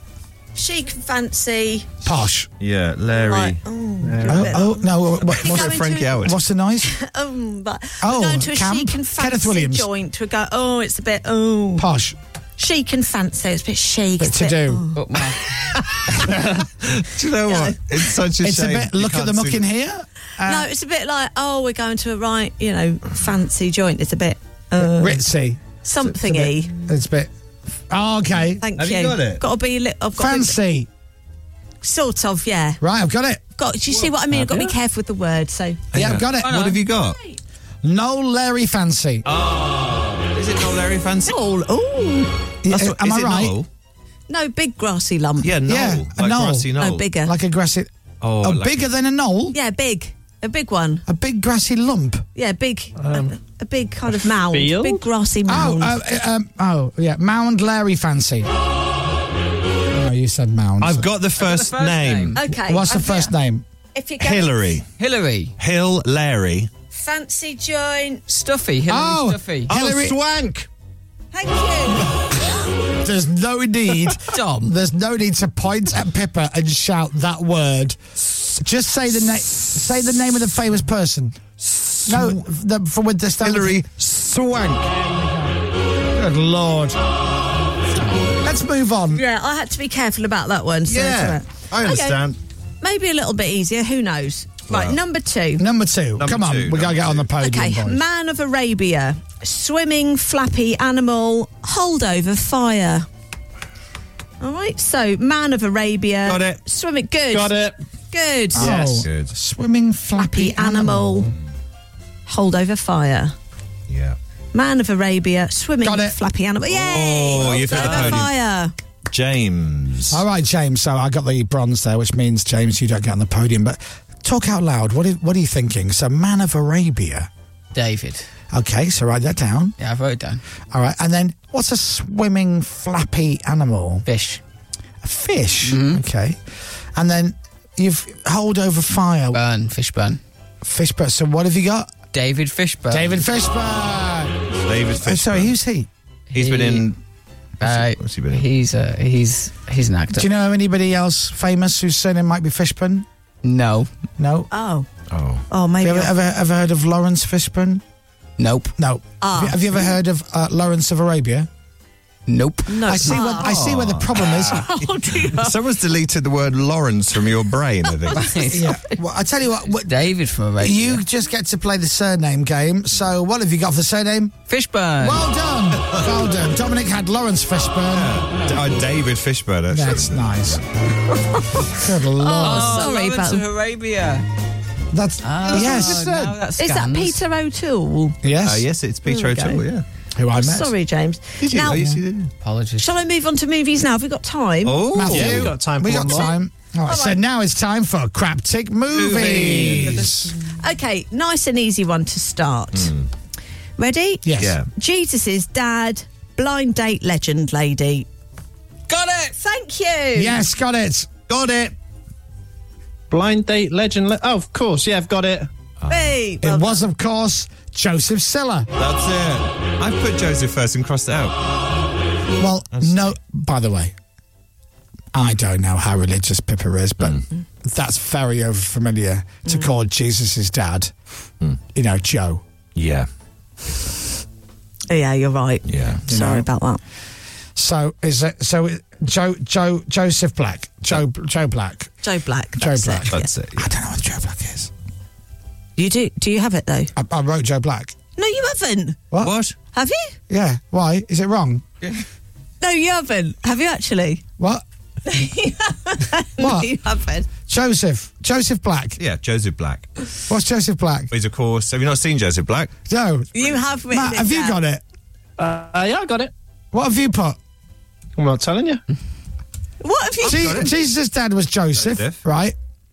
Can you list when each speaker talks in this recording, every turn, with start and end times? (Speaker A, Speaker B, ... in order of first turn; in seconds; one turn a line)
Speaker A: 0.6-1.9
Speaker B: 2.0-2.5
Speaker C: 2.6-3.6
Speaker A: 3.2-6.2
Speaker D: 4.0-4.6
Speaker B: 4.3-6.9
Speaker C: 5.2-6.4
Speaker A: 6.8-11.9
Speaker B: 8.0-9.9
Speaker B: 11.8-12.2
Speaker A: 12.6-15.0
Speaker B: 14.2-14.8
Speaker E: 14.9-15.4
Speaker C: 15.5-19.6
Speaker A: 17.5-17.8
Speaker B: 18.4-20.7
Speaker A: 20.4-25.2
Speaker B: 24.8-27.3
Speaker A: 25.8-26.7
Speaker B: 27.9-28.6
Speaker A: 28.6-30.6
Speaker C: 28.8-29.4
Speaker B: 30.2-30.9
Speaker A: 31.8-32.8
Speaker B: 32.8-33.4
Speaker A: 33.6-35.9
Speaker B: 35.9-36.8
Speaker C: 35.9-37.2
Speaker E: 36.3-36.8
Speaker B: 37.8-39.2
Speaker C: 39.2-41.3
Speaker A: 41.3-42.3
Speaker B: 42.6-43.6
Speaker C: 42.7-43.7
Speaker A: 44.3-45.5
Speaker C: 45.4-47.1
Speaker B: 45.6-46.7
Speaker A: 46.8-47.3
Speaker B: 47.2-47.9
Speaker C: 48.2-48.9
Speaker B: 48.4-49.6
Speaker A: 49.5-51.0
Speaker B: 51.1-52.3
Speaker A: 52.4-56.0
Speaker D: 53.0-53.3
Speaker D: 54.5-55.1
Speaker B: 55.5-58.5
Speaker B: 59.9-61.1
Speaker C: 60.8-62.4
Speaker E: 61.4-62.4
Speaker A: 62.4-63.3
Speaker B: 62.7-63.6
Speaker A: 63.9-64.7
Speaker C: 64.2-64.8
Speaker E: 65.0-65.5
Speaker C: 65.6-66.7
Speaker A: 66.9-68.2
Speaker E: 68.3-69.8
Speaker B: 68.9-70.2
Speaker C: 69.7-70.7
Speaker A: 71.3-72.1
Speaker B: 73.0-78.0
Speaker E: 74.3-74.7
Speaker B: 78.5-81.4
Speaker C: 81.6-82.4
Speaker B: 82.1-83.8
Speaker C: 83.4-84.9
Speaker B: 84.9-85.6
Speaker B: 86.1-87.0
Speaker B: 88.0-89.2
Speaker A: 89.1-92.2
Speaker C: 90.9-92.4
Speaker A: 92.8-95.6
Speaker C: 94.7-95.0
Speaker B: 95.6-98.0
Speaker C: 96.2-97.3
Speaker A: 97.4-103.1
Speaker A: 104.4-107.5
Speaker C: 106.3-106.6
Speaker D: 107.3-107.8
Speaker A: 108.1-108.8
Speaker B: 108.5-111.3
Speaker D: 108.6-109.0
Speaker C: 109.0-109.3
Speaker A: 110.2-111.3
Speaker A: 112.3-113.3
Speaker C: 113.9-114.2
Speaker A: 114.5-118.7
Speaker B: 115.8-116.2
Speaker C: 116.7-118.3
Speaker C: 119.1-120.2
Speaker B: 120.1-127.3
Speaker E: 127.7-128.3
Speaker B: 128.5-129.8
Speaker E: 129.8-130.4
Speaker B: 130.7-134.1
Speaker E: 134.1-134.4
Speaker B: 135.0-136.4
Speaker E: 135.7-136.0
Speaker B: 137.0-139.4
Speaker E: 139.3-140.2
Speaker B: 140.6-141.9
Speaker E: 142.1-143.2
Speaker B: 142.9-144.4
Speaker C: 144.7-145.5
Speaker B: 145.0-145.9
Speaker E: 146.3-146.9
Speaker C: 146.3-147.0
Speaker E: 147.6-150.3
Speaker C: 147.6-148.4
Speaker B: 150.1-153.1
Speaker E: 153.4-153.9
Speaker B: 154.2-154.5
Speaker A: 154.5-154.9
Speaker C: 155.1-155.4
Speaker A: 155.5-156.1
Speaker B: 155.8-157.8
Speaker E: 158.4-158.7
Speaker B: 158.8-161.5
Speaker A: 159.2-159.6
Speaker E: 162.3-163.2
Speaker A: 162.7-163.5
Speaker B: 162.9-164.7
Speaker C: 163.3-168.3
Speaker A: 164.2-165.6
Speaker A: 168.1-168.7
Speaker E: 168.2-168.7
Speaker B: 168.5-174.4
Speaker E: 169.9-171.0
Speaker E: 174.5-175.3
Speaker B: 175.0-178.2
Speaker C: 177.9-180.6
Speaker B: 179.7-180.6
Speaker B: 181.7-182.9
Speaker A: 182.2-183.4
Speaker E: 182.4-184.2
Speaker B: 184.9-186.1
Speaker E: 185.2-187.2
Speaker A: 186.6-188.2
Speaker B: 188.2-188.7
Speaker C: 188.4-189.8
Speaker A: 189.1-189.6
Speaker B: 190.2-190.7
Speaker A: 190.4-191.8
Speaker C: 191.4-192.3
Speaker B: 191.7-192.0
Speaker E: 192.4-192.9
Speaker A: 192.8-194.8
Speaker C: 194.7-195.6
Speaker B: 194.9-200.3
Speaker D: 195.1-196.3
Speaker A: 196.9-197.2
Speaker C: 198.9-200.0
Speaker D: 199.0-200.1
Speaker A: 200.6-202.9
Speaker C: 202.7-203.1
Speaker A: 203.8-208.1
Speaker B: 204.2-204.6
Speaker C: 204.4-204.7
Speaker E: 208.9-209.3
Speaker A: 209.4-210.4
Speaker B: 210.2-211.1
Speaker C: 211.3-211.8
Speaker D: 213.1-215.5
Speaker C: 215.8-216.2
Speaker A: 215.9-216.9
Speaker B: 216.4-218.7
Speaker C: 218.8-221.4
Speaker B: 222.4-223.9
Speaker C: 222.7-223.1
Speaker B: 225.1-230.9
Speaker B: 231.8-232.4
Speaker C: 232.8-233.1
Speaker A: 234.9-236.8
Speaker C: 235.7-236.0
Speaker B: 236.1-236.5
Speaker B: 237.6-241.9
Speaker A: 242.0-243.3
Speaker B: 242.6-244.7
Speaker C: 243.1-243.7
Speaker A: 245.8-246.9
Speaker B: 247.0-247.9
Speaker A: 248.2-249.0
Speaker C: 249.2-249.6
Speaker A: 249.7-250.2
Speaker B: 250.3-251.7
Speaker A: 252.6-254.2
Speaker B: 254.4-254.6
Speaker A: 255.1-257.3
Speaker B: 256.4-256.7
Speaker B: 257.5-259.0
Speaker C: 259.0-259.9
Speaker B: 260.3-261.1
Speaker C: 261.1-262.7
Speaker B: 262.9-263.3
Speaker A: 263.3-264.6
Speaker B: 263.9-264.8
Speaker D: 265.4-266.3
Speaker B: 266.7-267.4
Speaker D: 268.2-268.8
Speaker A: 269.8-270.7
Speaker C: 270.2-270.7
Speaker B: 270.2-272.6
Speaker C: 271.8-272.2